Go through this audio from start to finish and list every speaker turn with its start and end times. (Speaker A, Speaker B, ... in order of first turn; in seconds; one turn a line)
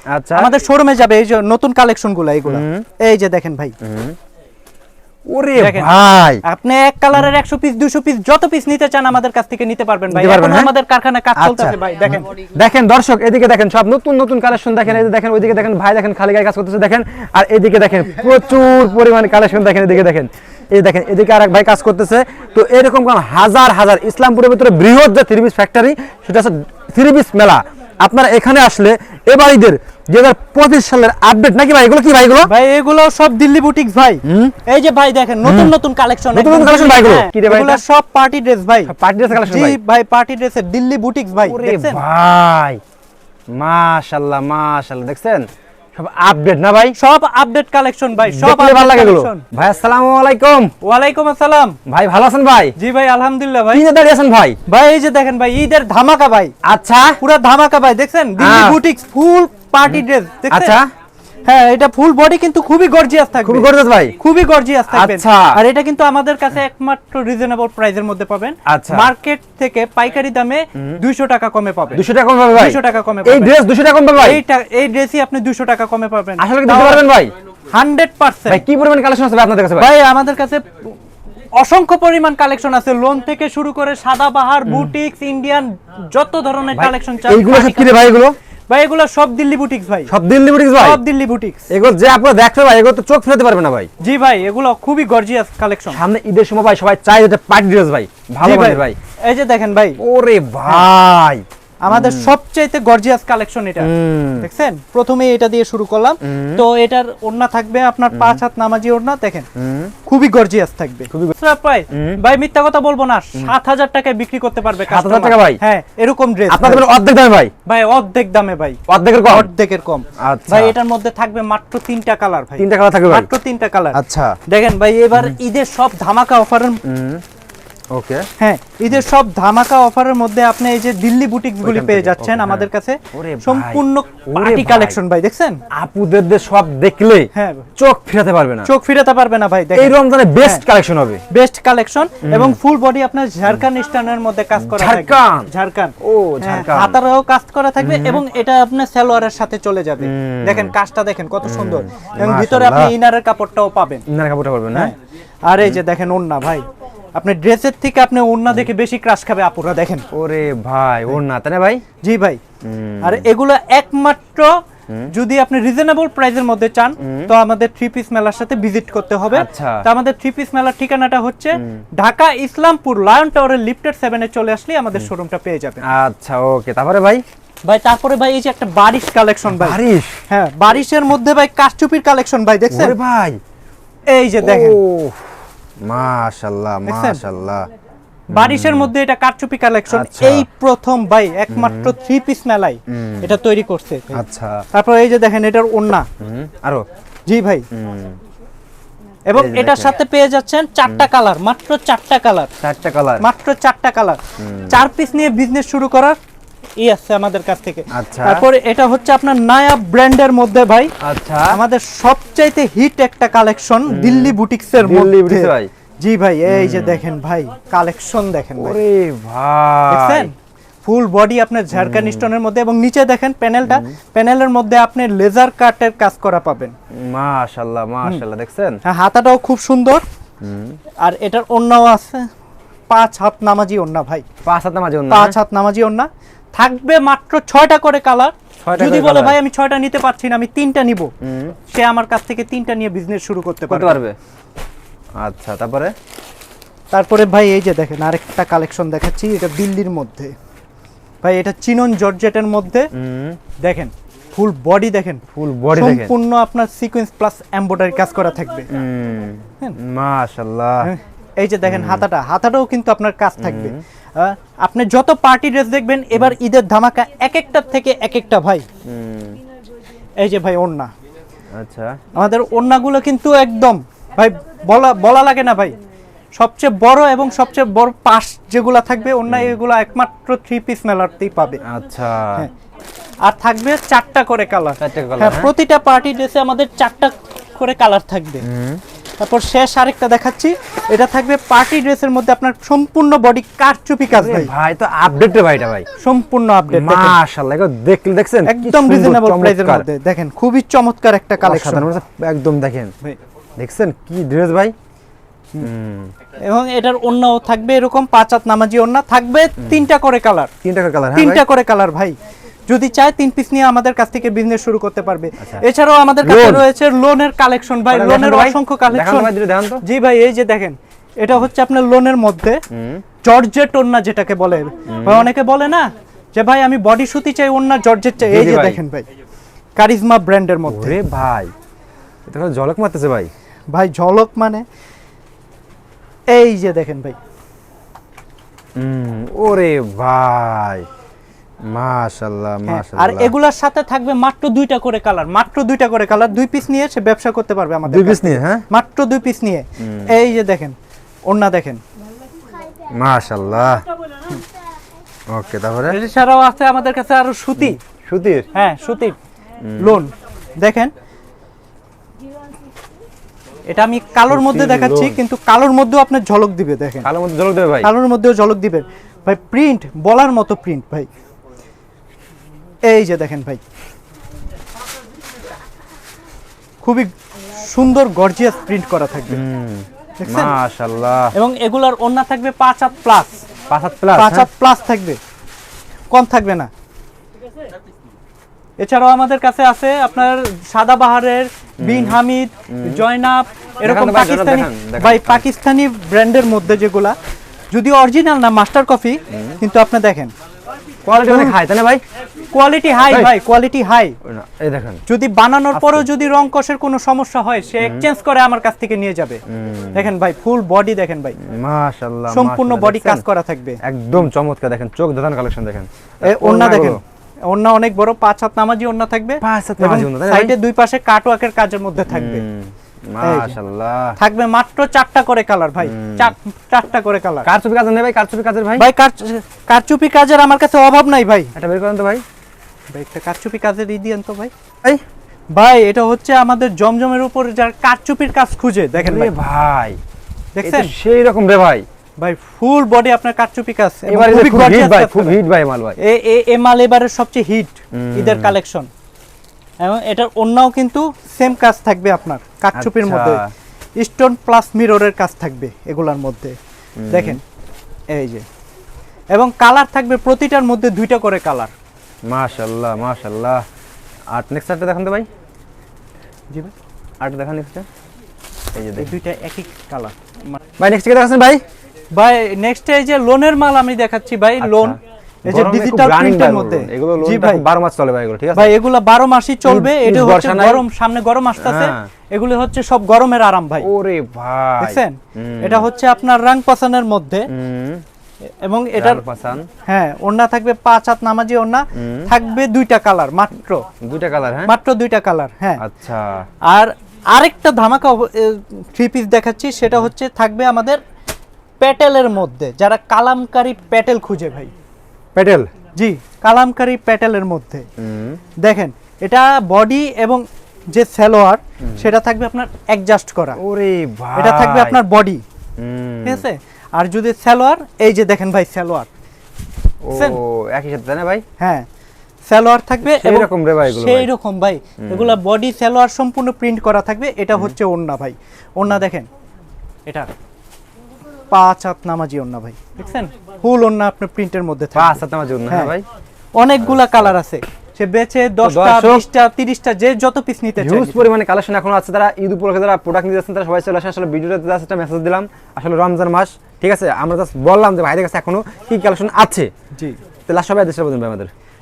Speaker A: 0.1-0.5
Speaker B: 0.3-3.7
Speaker A: 2.5-2.8
Speaker A: 3.8-4.2
Speaker A: 5.3-6.4
Speaker B: 5.6-12.3
Speaker A: 10.1-10.7
Speaker A: 11.3-32.5
Speaker B: 32.4-42.0
Speaker A: 34.2-34.5
Speaker A: 35.4-35.7
Speaker A: 36.3-37.8
Speaker A: 38.9-39.8
Speaker A: 41.4-42.8
Speaker A: 43.5-47.0
Speaker B: 47.0-49.4
Speaker A: 48.3-50.7
Speaker B: 50.8-51.8
Speaker A: 51.9-52.7
Speaker B: 52.8-53.8
Speaker A: 53.7-54.6
Speaker B: 54.7-56.5
Speaker A: 56.6-57.2
Speaker B: 57.2-60.8
Speaker A: 58.4-58.8
Speaker A: 59.9-60.9
Speaker B: 61.4-73.5
Speaker A: 63.4-64.2
Speaker A: 64.9-65.6
Speaker A: 68.7-69.1
Speaker A: 71.9-74.4
Speaker B: 74.2-77.0
Speaker A: 76.4-77.3
Speaker B: 77.7-78.6
Speaker A: 78.5-79.9
Speaker B: 79.8-81.0
Speaker B: 81.5-88.0
Speaker A: 84.7-84.9
Speaker A: 86.7-88.3
Speaker B: 88.7-90.1
Speaker A: 90.1-91.0
Speaker B: 90.8-91.7
Speaker A: 91.7-93.9
Speaker B: 94.0-96.0
Speaker A: 95.9-99.0
Speaker B: 98.4-100.0
Speaker A: 100.0-102.3
Speaker B: 101.8-109.5
Speaker A: 103.8-104.5
Speaker A: 106.2-106.6
Speaker A: 108.1-108.4
Speaker A: 109.5-109.9
Speaker B: 110.0-116.8
Speaker A: 111.9-112.2
Speaker A: 114.8-115.6
Speaker A: 116.5-117.5
Speaker B: 117.6-126.8
Speaker A: 118.9-119.5
Speaker A: 120.2-120.7
Speaker A: 122.6-123.3
Speaker A: 123.9-124.4
Speaker A: 126.8-127.2
Speaker A: 127.9-128.3
Speaker B: 128.4-135.6
Speaker A: 131.6-135.0
Speaker A: 135.7-138.7
Speaker B: 137.3-137.7
Speaker B: 138.6-140.6
Speaker A: 139.8-141.2
Speaker B: 141.3-154.0
Speaker A: 142.2-142.6
Speaker A: 144.6-145.5
Speaker A: 146.0-147.0
Speaker A: 147.8-148.2
Speaker A: 150.0-150.7
Speaker A: 151.4-152.9
Speaker A: 154.1-154.9
Speaker B: 154.7-156.6
Speaker B: 157.2-160.1
Speaker A: 160.1-161.8
Speaker B: 162.0-162.4
Speaker A: 162.6-163.3
Speaker B: 163.0-164.6
Speaker B: 165.1-175.8
Speaker A: 167.0-167.3
Speaker A: 169.3-169.8
Speaker A: 171.6-171.8
Speaker A: 175.8-177.2
Speaker B: 177.6-182.9
Speaker A: 179.5-180.2
Speaker A: 182.7-183.4
Speaker B: 184.1-184.8
Speaker A: 184.4-187.7
Speaker B: 186.8-187.2
Speaker B: 188.3-194.2
Speaker A: 188.3-188.9
Speaker A: 189.9-190.4
Speaker A: 191.5-191.9
Speaker A: 192.9-193.3
Speaker A: 194.1-194.6
Speaker B: 194.7-196.1
Speaker A: 196.2-196.8
Speaker B: 197.2-197.6
Speaker A: 197.7-198.2
Speaker B: 199.2-202.5
Speaker A: 199.3-200.0
Speaker A: 202.6-203.2
Speaker B: 203.2-204.2
Speaker A: 204.4-204.8
Speaker B: 204.7-206.2
Speaker B: 206.8-210.9
Speaker A: 207.9-208.4
Speaker A: 211.0-211.6
Speaker B: 211.5-218.8
Speaker A: 213.9-215.7
Speaker A: 216.5-217.0
Speaker A: 218.6-220.3
Speaker B: 219.9-220.3
Speaker B: 220.8-226.7
Speaker A: 221.7-222.3
Speaker A: 223.7-223.9
Speaker A: 226.9-228.8
Speaker B: 228.8-230.0
Speaker A: 230.4-230.8
Speaker B: 231.0-232.3
Speaker B: 232.9-234.2
Speaker A: 234.4-235.3
Speaker B: 235.1-241.1
Speaker A: 238.6-239.4
Speaker A: 241.2-241.6
Speaker B: 241.7-244.0
Speaker A: 243.7-244.2
Speaker A: 245.2-245.9
Speaker B: 246.9-250.3
Speaker B: 251.2-252.9
Speaker A: 252.9-253.4
Speaker B: 253.6-258.7
Speaker A: 255.3-256.1
Speaker A: 258.7-260.9
Speaker B: 260.8-268.6
Speaker A: 261.6-262.1
Speaker A: 263.4-263.8
Speaker A: 268.8-269.4
Speaker B: 270.2-270.9
Speaker A: 271.6-272.0
Speaker B: 272.1-275.7
Speaker B: 276.4-281.6
Speaker A: 279.3-279.6
Speaker A: 281.6-282.4
Speaker B: 283.2-288.4
Speaker A: 284.8-285.5
Speaker A: 288.4-288.8
Speaker B: 289.2-294.5
Speaker A: 294.1-295.9
Speaker B: 296.0-297.2
Speaker A: 296.7-299.9
Speaker B: 298.4-301.9
Speaker A: 301.4-302.9
Speaker A: 303.6-304.7
Speaker A: 305.6-306.1
Speaker B: 306.4-310.5
Speaker A: 310.6-311.4
Speaker B: 311.1-312.1
Speaker B: 312.7-319.3
Speaker A: 316.2-316.6
Speaker A: 317.9-319.8
Speaker B: 319.8-322.6
Speaker A: 322.7-323.0
Speaker B: 323.2-329.0
Speaker A: 324.9-325.3
Speaker A: 328.2-328.8
Speaker B: 329.8-331.0
Speaker A: 330.7-331.5
Speaker A: 332.3-333.3
Speaker B: 333.7-334.6
Speaker B: 336.3-337.2
Speaker A: 338.8-340.9
Speaker A: 341.7-343.3
Speaker B: 342.6-350.7
Speaker A: 347.9-348.6
Speaker A: 349.8-350.1
Speaker B: 351.3-351.8
Speaker A: 352.9-353.8
Speaker A: 355.3-356.0
Speaker B: 355.9-357.8
Speaker A: 357.8-358.5
Speaker B: 358.5-359.2
Speaker A: 359.6-360.0
Speaker B: 359.8-360.9
Speaker B: 363.7-367.1
Speaker A: 364.3-365.2
Speaker A: 367.0-367.9
Speaker B: 367.8-371.1
Speaker B: 372.8-373.6
Speaker B: 376.8-379.4
Speaker A: 379.3-381.3
Speaker B: 380.2-380.5
Speaker B: 381.3-383.4
Speaker A: 383.7-384.5
Speaker B: 384.1-385.2
Speaker B: 386.1-386.7
Speaker B: 388.8-397.2
Speaker A: 391.8-392.2
Speaker A: 392.7-393.0
Speaker A: 393.8-395.4
Speaker B: 397.7-400.3
Speaker A: 399.3-399.6
Speaker A: 401.1-402.0
Speaker B: 401.2-401.6
Speaker B: 402.5-404.1
Speaker A: 404.2-405.0
Speaker B: 405.1-409.4
Speaker A: 405.7-406.1
Speaker A: 409.5-410.1
Speaker B: 409.9-411.4
Speaker A: 411.4-413.2
Speaker B: 412.3-413.8
Speaker A: 413.8-417.0
Speaker B: 416.2-422.4
Speaker A: 419.4-420.5
Speaker A: 422.1-424.2
Speaker B: 423.2-423.6
Speaker B: 424.2-427.5
Speaker A: 425.8-426.3
Speaker A: 427.4-428.9
Speaker B: 428.8-431.5
Speaker A: 431.6-432.2
Speaker B: 432.9-434.5
Speaker B: 435.5-439.3
Speaker A: 439.0-440.0
Speaker B: 440.5-440.9
Speaker A: 440.6-441.8
Speaker B: 442.2-445.3
Speaker A: 444.1-446.0
Speaker B: 446.0-448.9
Speaker A: 447.9-448.5
Speaker B: 449.8-453.4
Speaker A: 452.7-453.5
Speaker B: 454.0-456.5
Speaker A: 457.0-457.4
Speaker B: 457.1-457.4
Speaker B: 458.1-458.4
Speaker B: 459.3-461.7
Speaker A: 462.3-463.6
Speaker A: 464.3-465.3
Speaker A: 467.2-467.9
Speaker A: 468.7-469.1
Speaker B: 469.0-470.6
Speaker A: 470.8-471.6
Speaker B: 472.1-477.6
Speaker A: 474.6-478.7
Speaker B: 478.5-483.9
Speaker A: 479.6-480.8
Speaker A: 481.6-482.1
Speaker A: 483.8-485.9
Speaker B: 484.8-487.5
Speaker A: 487.5-488.0
Speaker B: 488.6-489.2
Speaker A: 488.9-489.6
Speaker B: 489.9-493.8
Speaker A: 491.9-492.3
Speaker A: 494.0-494.7
Speaker B: 494.6-495.8
Speaker A: 495.8-496.4
Speaker B: 496.6-501.0
Speaker B: 501.8-504.7
Speaker A: 505.3-505.7
Speaker B: 505.9-507.9
Speaker A: 508.0-508.4
Speaker B: 508.6-513.6
Speaker A: 511.8-512.1
Speaker A: 513.6-515.0
Speaker B: 514.3-515.4
Speaker A: 515.8-516.4
Speaker B: 516.2-519.1
Speaker A: 520.0-521.4
Speaker B: 520.1-520.4
Speaker B: 521.6-521.9
Speaker B: 522.5-529.3
Speaker A: 523.0-524.3
Speaker A: 525.0-525.4
Speaker B: 531.5-535.9
Speaker A: 535.0-536.0
Speaker B: 536.6-541.3
Speaker A: 536.8-537.3
Speaker A: 538.6-539.2
Speaker A: 540.8-549.7
Speaker A: 550.5-551.5